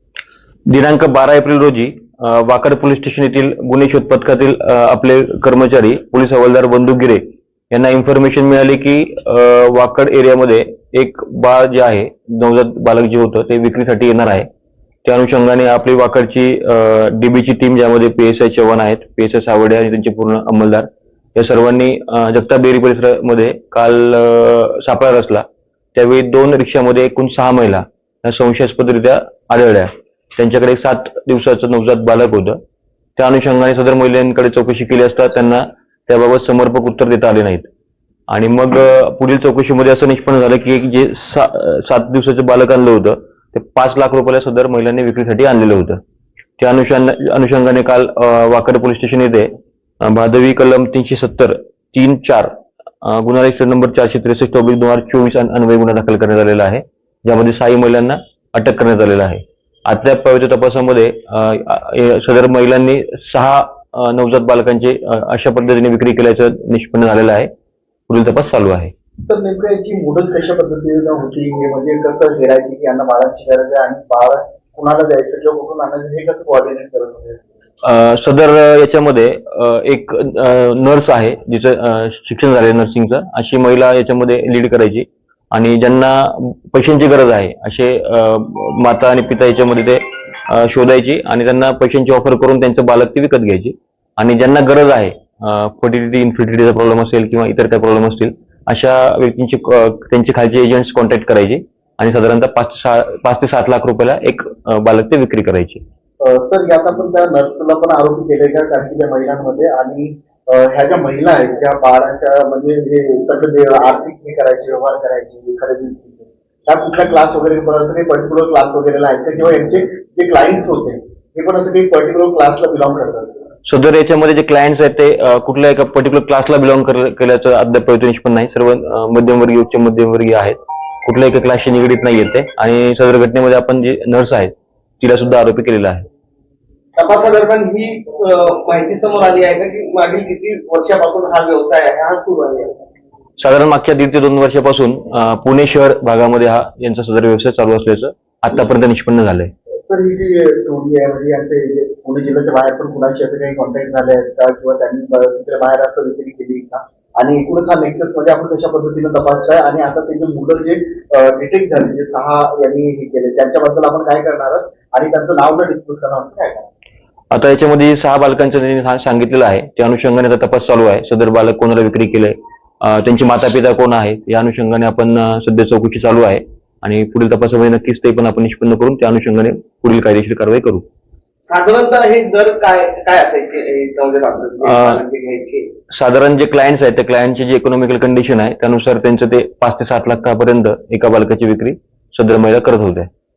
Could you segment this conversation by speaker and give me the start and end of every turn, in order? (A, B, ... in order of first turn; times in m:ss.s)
0:00.7-0:14.5 A
0:15.0-0:32.6 A
0:33.2-0:37.7 A
0:38.3-0:46.0 A
0:46.6-0:49.5 A
0:50.0-1:07.5 A
1:08.1-1:08.9 A
1:09.3-1:17.5 B
1:17.8-1:45.8 A
1:46.2-2:03.4 B
2:03.7-2:16.1 A
2:17.0-2:22.8 C
2:23.4-2:29.5 A
2:29.9-2:46.7 B
2:47.3-3:00.8 A
3:01.4-3:05.7 C
3:04.6-3:05.0 A
3:05.9-3:13.1 A